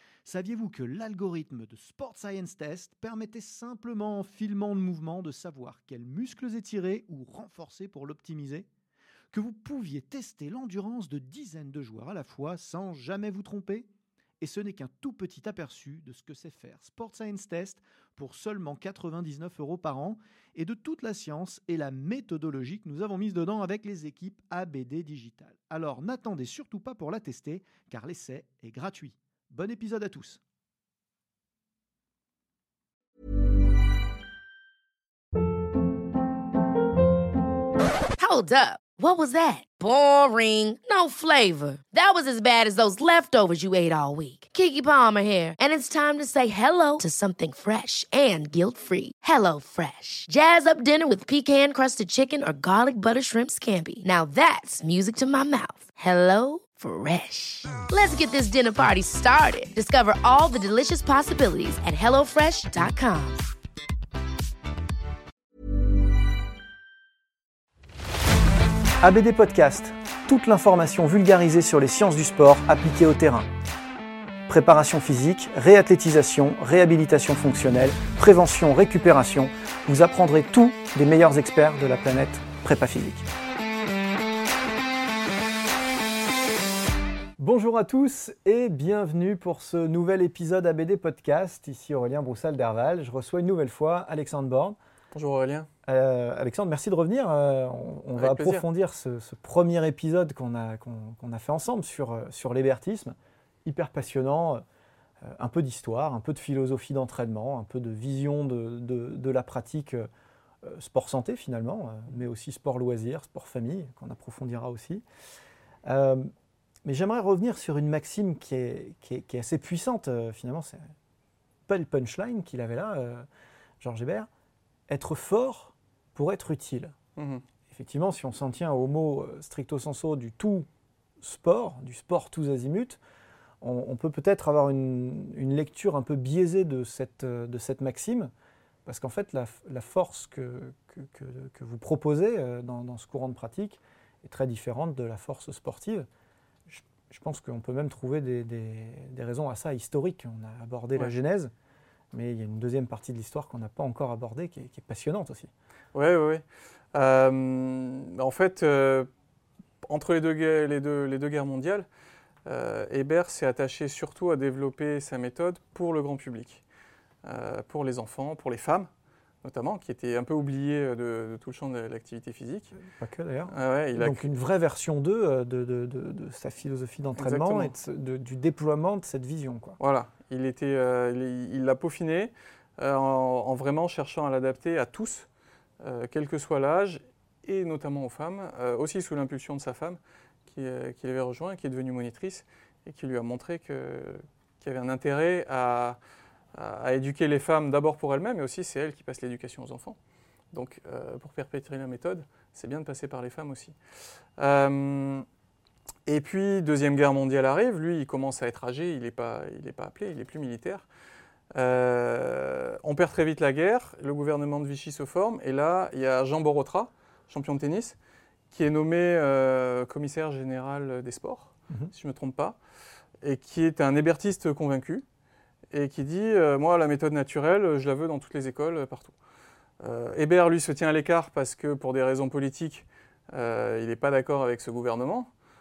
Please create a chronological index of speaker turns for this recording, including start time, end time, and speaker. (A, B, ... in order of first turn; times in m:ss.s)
0:00.2-0:08.7 A
0:09.3-0:13.9 A
0:14.4-0:30.4 A
0:38.2-1:03.4 B
1:09.0-1:13.5 A
1:14.5-1:23.3 A
1:27.4-1:34.8 A
1:35.1-1:35.7 C
1:35.9-1:44.6 A
1:38.2-1:38.6 C
1:45.2-1:50.1 A
1:50.6-1:55.0 A
1:55.9-1:56.3 A
1:56.8-2:00.9 A
2:01.7-2:03.3 A
2:03.8-2:04.3 A
2:04.9-2:07.0 A
2:07.2-2:07.4 C
2:07.7-2:10.7 A
2:11.2-2:13.0 A
2:13.6-2:18.3 A
2:18.8-2:26.1 A
2:26.7-2:31.5 A
2:32.1-2:35.5 A
2:35.9-2:39.1 C
2:39.8-2:41.9 C
2:42.5-2:46.6 C
2:47.2-2:48.9 C
2:49.4-2:52.8 C
2:52.8-2:59.8 A
2:53.5-2:54.3 C
2:57.2-2:57.8 C
2:59.8-3:05.3 C
3:05.8-3:16.0 C
3:16.5-3:20.0 C
3:20.5-3:23.8 C
3:24.4-3:25.3 C
3:26.1-3:30.9 C
3:31.5-3:38.0 C
3:38.5-3:42.6 C
3:43.2-3:45.0 C
3:45.7-3:49.2 C
3:49.8-3:55.3 C